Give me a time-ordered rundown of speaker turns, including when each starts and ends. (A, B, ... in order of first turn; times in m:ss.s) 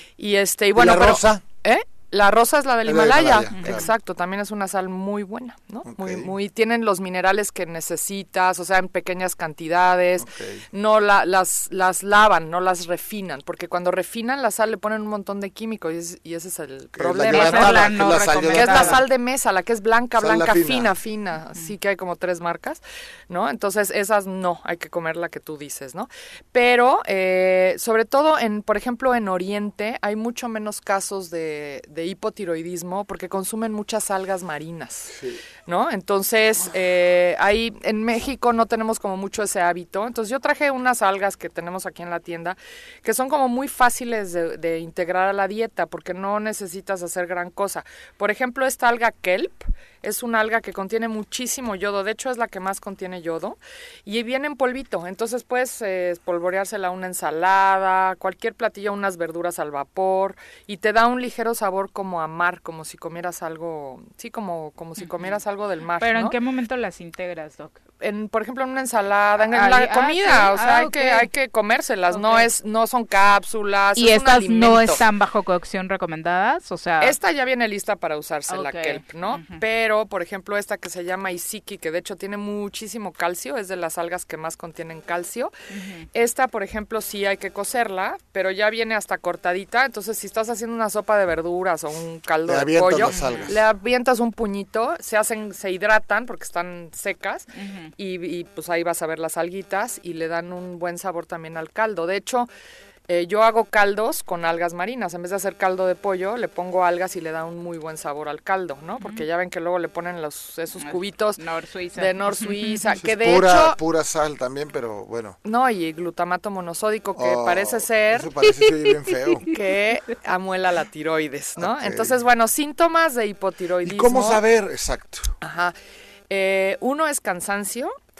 0:00.2-1:06.4 A
0:00.7-0:01.4 B
0:02.8-0:03.9 B
0:03.5-0:03.9 C
0:05.8-0:06.3 B
0:10.2-0:10.6 B
0:16.9-0:19.0 B
0:17.2-0:19.0 C
0:20.2-0:20.9 B
0:35.1-0:35.4 B
1:05.0-1:05.4 C
1:06.0-1:07.8 C
1:08.0-1:15.0 A
1:09.4-1:11.3 C
1:12.1-1:12.5 C
1:13.9-1:17.1 C
1:17.0-1:25.5 A
1:18.5-1:19.6 C
1:25.7-1:26.1 C
1:26.1-1:42.5 A
1:32.5-1:33.6 B
1:33.0-1:33.5 C
1:37.5-1:37.9 C
1:43.1-1:51.4 A
1:49.0-1:49.2 C
1:50.8-1:52.9 C
1:51.9-1:53.8 A
1:53.0-1:55.4 B
1:55.4-1:58.3 A
1:57.1-1:59.5 B
1:59.1-1:59.5 C
1:59.5-2:04.4 A
2:01.6-2:02.2 B
2:03.8-2:05.3 B
2:05.4-2:05.7 A
2:06.3-2:08.0 A